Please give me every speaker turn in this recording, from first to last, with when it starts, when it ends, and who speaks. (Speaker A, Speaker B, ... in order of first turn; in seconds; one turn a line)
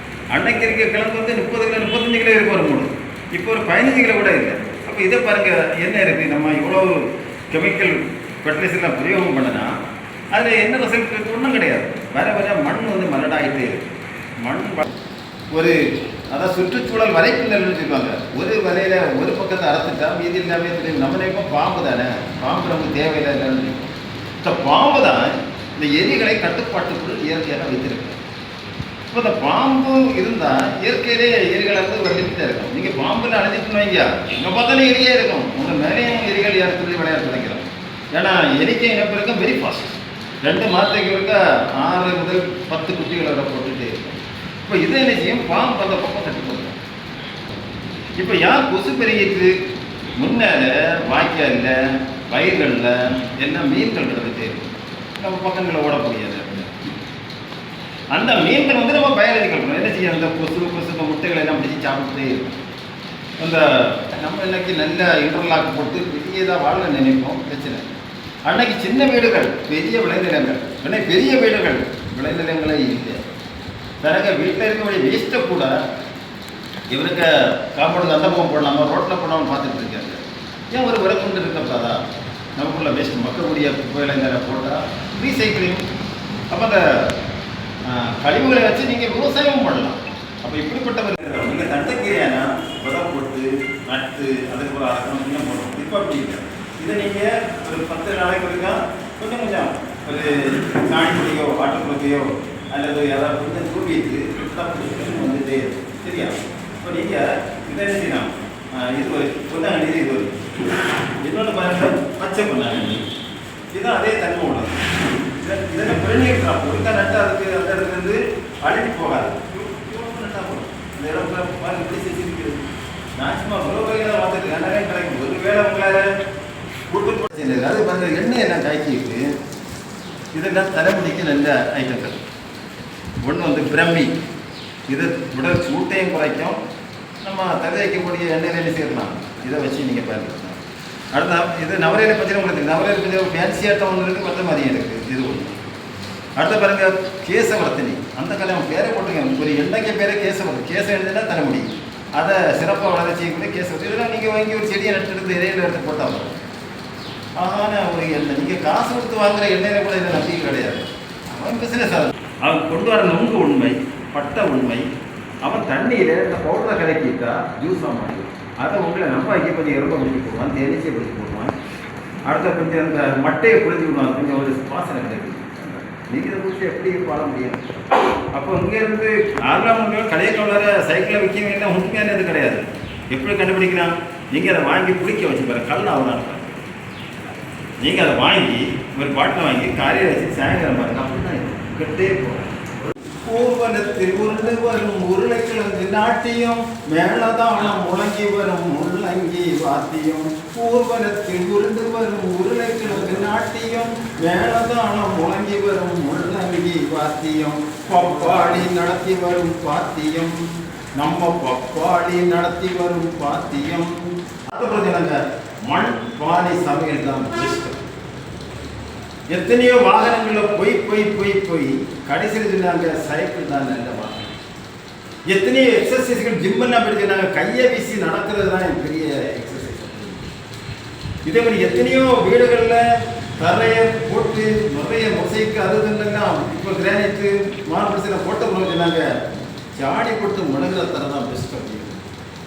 Speaker A: 0.3-9.7
Speaker A: 10.3-13.9
Speaker A: 14.4-14.8
Speaker A: 15.5-15.8
Speaker A: 16.3-23.9
Speaker A: 24.4-28.2
Speaker A: 29.1-46.8
Speaker A: 48.2-49.5
Speaker A: 50.2-51.7
Speaker A: 52.3-56.7
Speaker A: 58.1-62.6
Speaker A: 63.4-67.9
Speaker A: 68.5-73.2
Speaker A: 74.0-75.7
Speaker A: 76.9-80.2
Speaker A: 80.7-82.0
Speaker A: 82.5-85.8
Speaker A: 86.5-87.1
Speaker A: 87.8-110.4
Speaker A: 111.2-113.0
Speaker A: 113.7-114.8
Speaker A: 115.4-122.6
Speaker A: 123.2-126.0
Speaker A: 126.9-129.2
Speaker A: 130.3-132.2
Speaker A: 133.2-134.1
Speaker A: 134.9-136.6
Speaker A: 137.2-140.6
Speaker A: 141.1-145.5
Speaker A: 146.4-156.3
Speaker A: 157.4-164.8
Speaker A: 165.4-171.5
Speaker A: 172.2-186.6
Speaker A: 187.8-192.5
Speaker A: 193.2-210.3
Speaker A: 211.0-213.9
Speaker A: 214.5-215.2
Speaker A: 215.7-217.8
Speaker A: 219.3-224.3
Speaker A: 225.3-230.2
Speaker A: 231.2-232.8
Speaker A: 233.4-239.1
Speaker A: 239.8-242.0